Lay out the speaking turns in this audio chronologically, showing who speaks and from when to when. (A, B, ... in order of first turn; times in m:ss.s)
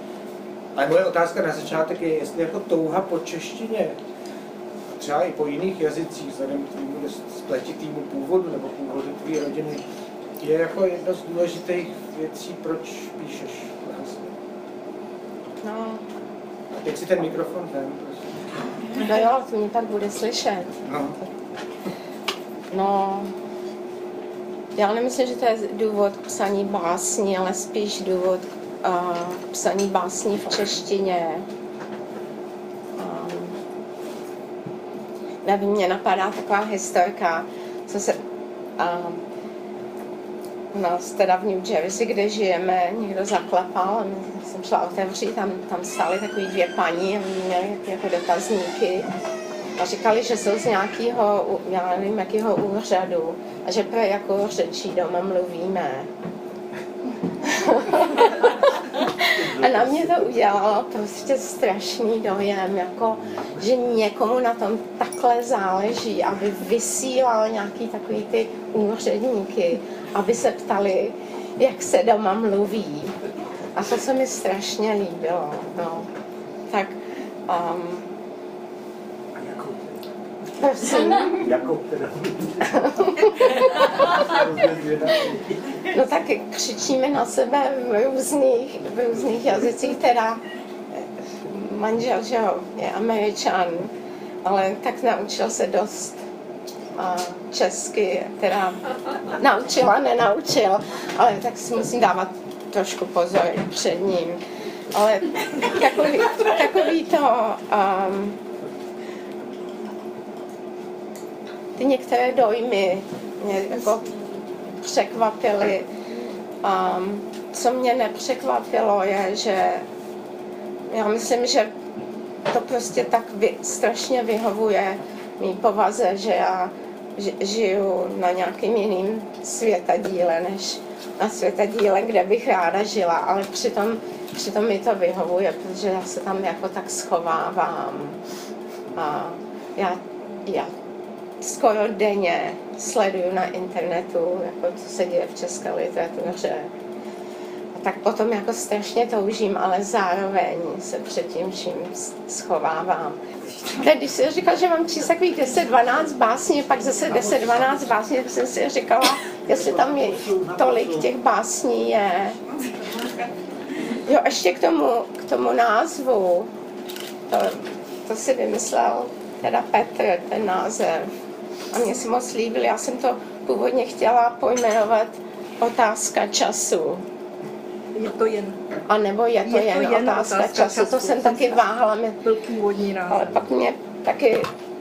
0:00.7-0:04.0 A
0:05.0-0:09.8 A
0:10.4-0:14.4 A
0:15.6-0:16.0 B
0:16.7-0:18.3 A
0:18.9-0:20.9 B
0:20.8-0:21.2 A
0:22.7-0:23.3 B
0:24.7-0:31.5 B
0:32.9-0:33.6 B
0:35.4-0:38.2 B
0:38.8-0:39.2 B
0:40.7-0:49.1 B
0:49.8-0:56.1 B
0:57.4-0:58.5 B
0:59.1-1:13.2 B
1:13.7-1:16.1 B
1:16.7-1:17.0 B
1:17.5-1:18.1 B
1:19.4-1:19.8 A
1:20.6-1:21.6 B
1:21.5-1:22.5 A
1:22.6-1:24.1 B
1:24.2-1:25.4 A
1:25.8-1:30.4 B
1:30.9-1:33.9 B
1:34.4-1:36.2 B
1:36.9-1:44.4 B
1:44.9-1:48.4 B
1:51.8-1:54.1 B
1:54.7-1:55.9 B
1:56.6-1:59.8 B
2:00.8-2:01.7 B
2:02.4-2:18.2 B
2:18.9-2:20.7 B
2:21.4-2:26.7 B
2:27.7-2:42.4 B
2:42.7-2:43.1 C
2:44.0-2:46.5 B
2:47.3-2:51.1 B
2:51.7-2:57.0 B
2:57.9-2:58.6 C
2:58.9-3:02.2 B
2:59.4-3:01.6 C
3:02.2-3:03.3 C
3:03.1-3:04.5 B